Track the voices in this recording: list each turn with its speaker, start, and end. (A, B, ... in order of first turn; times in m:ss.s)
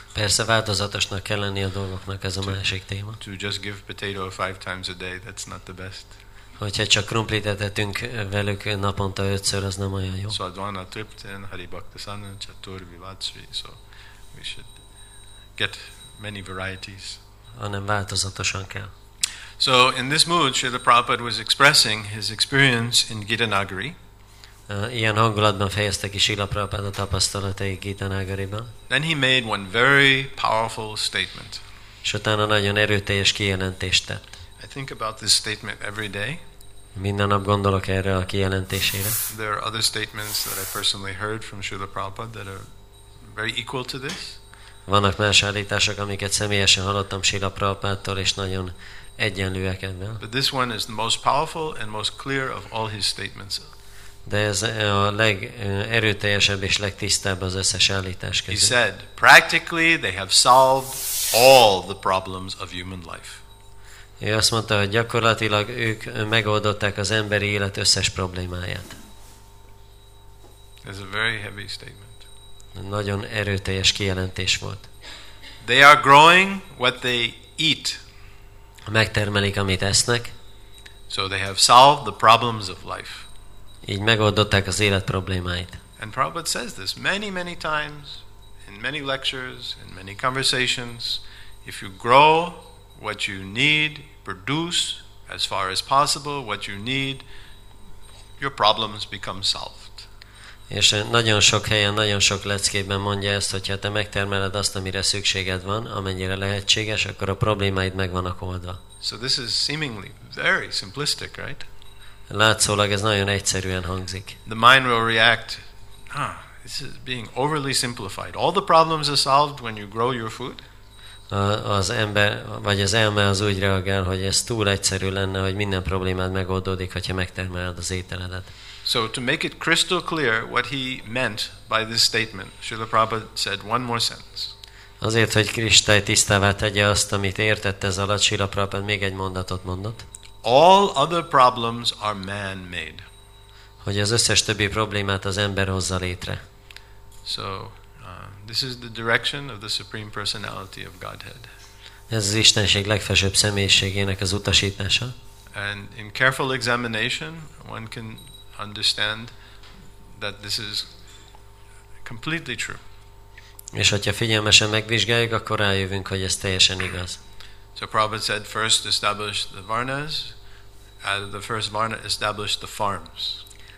0:00.1-0:03.2 A
0:03.2-0:06.2 B
0:06.6-0:10.4 A
0:10.3-0:13.8 B
0:14.3-0:14.7 B
0:15.6-0:17.2 B
0:17.5-0:18.9 A
0:19.6-0:24.0 B
0:24.7-0:28.7 A
0:28.9-0:31.6 B
0:32.0-0:34.2 A
0:34.6-0:36.4 B
0:36.9-0:39.2 A
0:39.3-0:42.7 B
0:43.2-0:44.4 B
0:44.8-0:50.2 A
0:50.2-0:53.6 B
0:54.2-0:58.7 A
0:58.5-1:03.4 B
1:04.2-1:09.0 A
1:10.8-1:12.2 B
1:12.7-1:14.9 A
1:15.6-1:18.0 B
1:18.9-1:20.3 A
1:21.1-1:23.3 B
1:23.8-1:25.8 A
1:26.0-1:37.2 B
1:38.4-1:40.1 B
1:40.7-1:48.8 A
1:49.0-1:51.7 B
1:52.3-1:54.4 A
1:54.4-2:00.6 B
2:01.3-2:08.5 A
2:08.8-2:14.5 B
2:15.0-2:20.0 A
2:20.4-2:23.0 B
2:23.8-2:26.4 A
2:27.2-2:31.5 B
2:32.1-2:35.1 A
2:35.5-2:39.3 B
2:40.2-2:40.9 B
2:42.0-2:42.8 B
2:43.7-2:47.2 A
2:47.8-2:50.4 B
2:51.0-2:53.4 B